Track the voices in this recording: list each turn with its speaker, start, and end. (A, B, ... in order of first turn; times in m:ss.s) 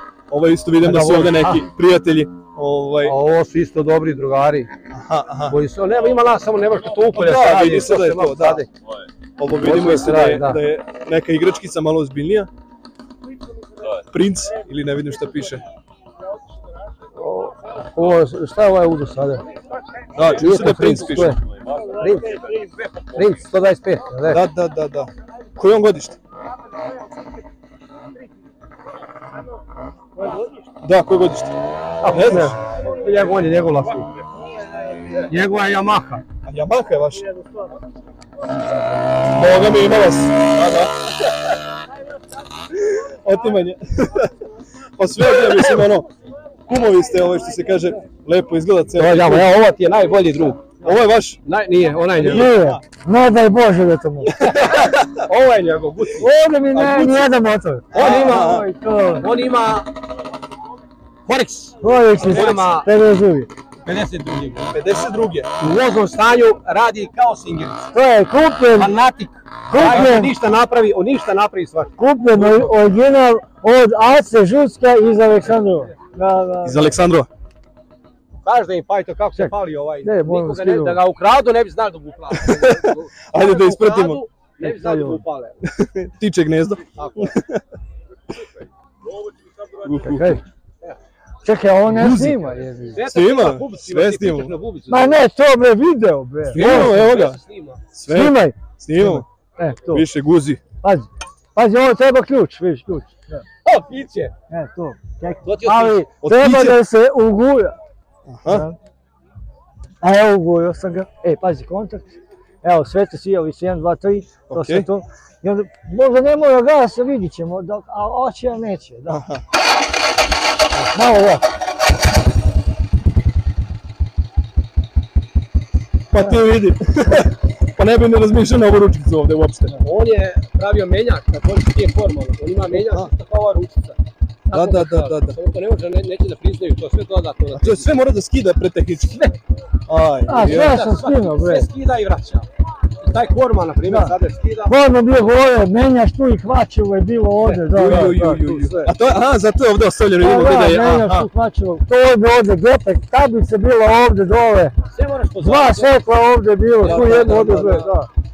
0:00.3-0:03.1 A
0:00.8-0:01.6 B
0:03.0-0:04.7 B
0:04.9-0:05.6 A
0:05.5-0:08.7 B
0:07.1-0:08.6 A
0:09.4-0:12.5 A
0:09.6-0:10.6 B
0:14.1-0:15.6 A
0:17.2-0:19.4 B
0:20.1-0:21.3 A
0:20.2-0:21.4 B
0:22.0-0:22.4 B
0:23.1-0:24.4 B
0:24.3-0:26.2 A
0:30.8-0:31.5 A
0:32.0-0:34.1 B
0:32.0-0:32.5 A
0:35.2-0:36.2 B
0:36.4-0:37.2 A
0:39.3-0:40.9 A
0:42.7-0:44.2 A
0:45.0-0:46.1 A
0:46.7-0:49.5 A
0:49.0-0:50.9 B
0:50.8-0:51.4 A
0:51.4-0:52.6 B
0:52.1-0:52.8 A
0:52.3-0:54.3 C
0:54.3-0:54.9 A
0:54.5-0:56.2 B
0:56.2-0:59.2 C
0:56.7-0:57.3 A
0:57.9-0:58.7 A
0:57.9-0:58.4 B
0:59.1-0:59.9 B
1:01.2-1:02.9 B
1:01.8-1:03.5 C
1:02.3-1:02.6 A
1:03.8-1:04.7 B
1:04.7-1:05.5 A
1:05.6-1:07.9 B
1:07.9-1:09.0 C
1:08.7-1:12.7 B
1:09.7-1:10.3 C
1:12.0-1:16.9 C
1:16.6-1:17.3 A
1:18.4-1:25.6 B
1:20.0-1:21.0 C
1:22.5-1:22.8 A
1:23.3-1:24.2 A
1:24.6-1:25.2 C
1:25.7-1:27.6 A
1:27.0-1:27.3 B
1:29.8-1:30.4 A
1:29.9-1:30.4 C
1:31.4-1:33.1 C
1:32.0-1:32.3 A
1:32.9-1:35.2 B
1:33.1-1:34.5 A
1:34.9-1:36.9 C
1:36.5-1:37.4 A
1:36.5-1:37.8 B
1:37.9-1:39.2 A
1:38.1-1:40.0 C
1:39.9-1:40.6 A
1:40.8-1:43.4 C
1:43.6-1:44.3 B
1:44.5-1:47.8 C
1:45.4-1:46.0 B
1:46.2-1:46.8 A
1:48.3-1:48.6 A
1:48.5-1:48.8 C
1:50.0-1:52.1 C
1:52.6-1:59.2 C
1:54.5-1:54.9 A
1:59.1-1:59.4 A
2:00.8-2:01.4 C
2:06.1-2:09.8 A
2:09.8-2:14.0 B
2:12.7-2:13.1 A
2:14.5-2:17.9 B
2:14.5-2:15.4 A
2:17.6-2:19.2 A
2:19.1-2:19.4 B
2:19.9-2:20.7 A
2:20.2-2:21.7 C
2:20.3-2:22.5 B
2:23.0-2:24.8 B
2:24.6-2:28.9 C
2:27.7-2:31.3 A
2:30.2-2:34.7 C
2:34.9-2:36.0 B
2:35.4-2:38.1 C
2:36.8-2:37.9 B
2:36.9-2:37.9 A